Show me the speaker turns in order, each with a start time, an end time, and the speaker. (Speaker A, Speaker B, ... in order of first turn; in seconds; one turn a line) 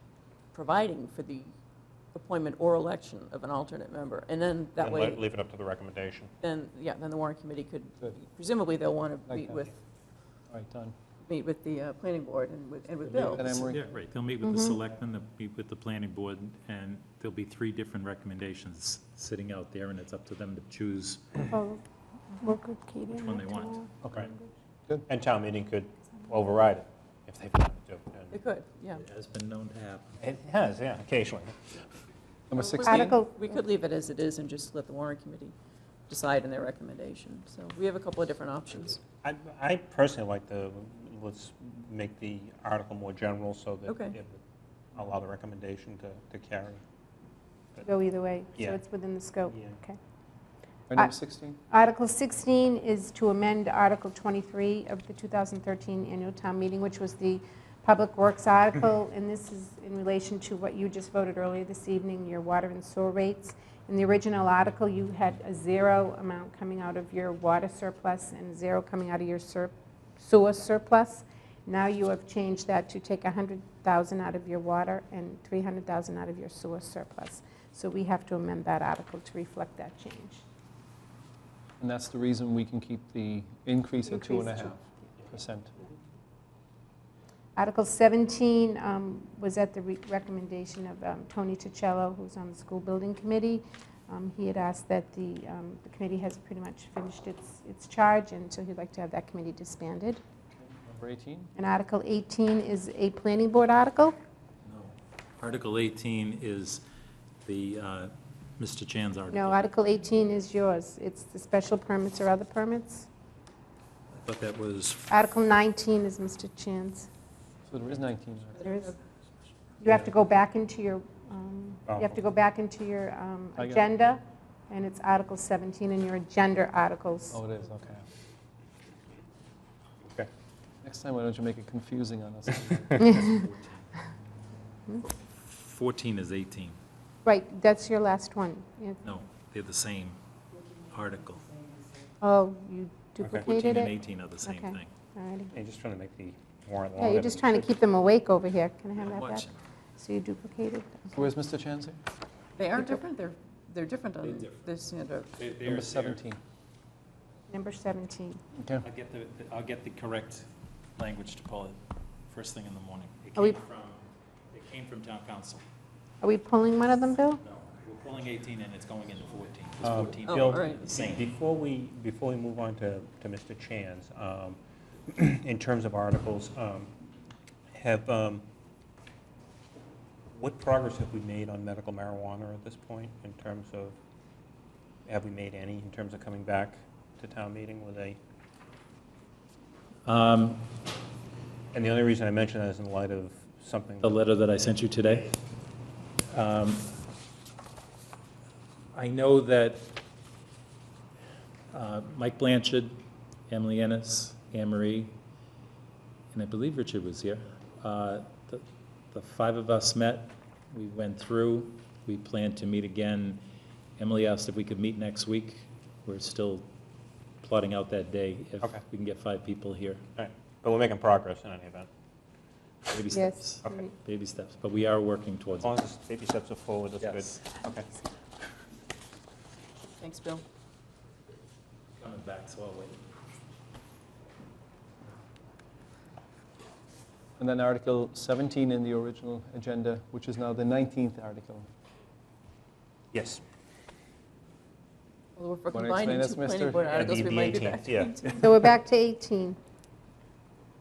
Speaker A: 0.5-1.5
Speaker A: 2.1-5.2
Speaker B: 4.8-6.3
Speaker A: 6.4-9.8
Speaker C: 9.3-9.7
Speaker C: 10.5-10.9
Speaker A: 11.2-13.6
Speaker C: 13.0-13.9
Speaker D: 13.7-21.5
Speaker E: 14.4-14.8
Speaker E: 21.5-21.8
Speaker E: 22.3-23.9
Speaker D: 23.2-23.9
Speaker B: 25.1-28.4
Speaker A: 28.3-29.1
Speaker D: 29.0-30.2
Speaker B: 30.2-31.9
Speaker C: 32.5-33.2
Speaker A: 32.6-35.5
Speaker E: 32.9-33.5
Speaker A: 36.1-39.0
Speaker B: 39.2-44.4
Speaker A: 43.9-44.2
Speaker B: 45.0-46.8
Speaker E: 47.8-50.0
Speaker B: 49.5-49.7
Speaker C: 50.9-51.6
Speaker E: 51.7-80.4
Speaker C: 81.8-85.9
Speaker E: 84.0-84.8
Speaker E: 87.6-100.2
Speaker C: 100.6-101.5
Speaker E: 101.6-104.2
Speaker D: 104.6-106.8
Speaker D: 107.4-109.7
Speaker E: 109.3-113.1
Speaker D: 114.2-115.1
Speaker E: 115.1-117.1
Speaker C: 117.7-118.7
Speaker E: 118.6-118.9
Speaker E: 119.8-127.4
Speaker B: 121.9-122.2
Speaker C: 123.6-123.9
Speaker C: 127.3-128.1
Speaker C: 130.8-133.4
Speaker E: 133.0-133.4
Speaker D: 133.1-133.7
Speaker D: 135.0-136.8
Speaker E: 137.2-139.0
Speaker D: 139.0-140.2
Speaker D: 140.9-141.6
Speaker E: 142.2-145.5
Speaker B: 143.2-143.5
Speaker D: 143.4-144.9
Speaker B: 145.5-147.8
Speaker E: 147.0-151.2
Speaker D: 149.0-149.6
Speaker C: 151.1-152.0
Speaker A: 152.6-155.4
Speaker E: 152.8-153.0
Speaker D: 154.2-154.7
Speaker D: 155.3-156.2
Speaker C: 155.6-156.4
Speaker E: 157.5-158.4
Speaker C: 158.6-158.9
Speaker D: 158.8-161.8
Speaker D: 162.3-165.6
Speaker E: 166.2-167.4
Speaker D: 167.4-171.3
Speaker B: 169.8-176.9
Speaker A: 170.2-170.8
Speaker B: 177.7-178.4
Speaker B: 180.3-184.0
Speaker B: 185.1-188.2
Speaker D: 190.1-190.7
Speaker B: 191.7-194.2
Speaker D: 194.0-195.3
Speaker D: 196.3-196.9
Speaker D: 198.9-200.0
Speaker D: 201.7-205.2
Speaker D: 206.3-213.4
Speaker D: 214.0-216.7
Speaker D: 217.4-220.1
Speaker B: 220.2-221.9
Speaker D: 222.9-225.8
Speaker E: 223.1-223.9
Speaker B: 225.6-227.9
Speaker D: 227.0-227.3
Speaker A: 230.0-230.4
Speaker D: 232.0-233.0
Speaker C: 237.4-241.7
Speaker B: 243.1-243.4
Speaker A: 245.4-248.4
Speaker C: 245.7-246.9
Speaker B: 246.8-248.4
Speaker E: 248.4-249.6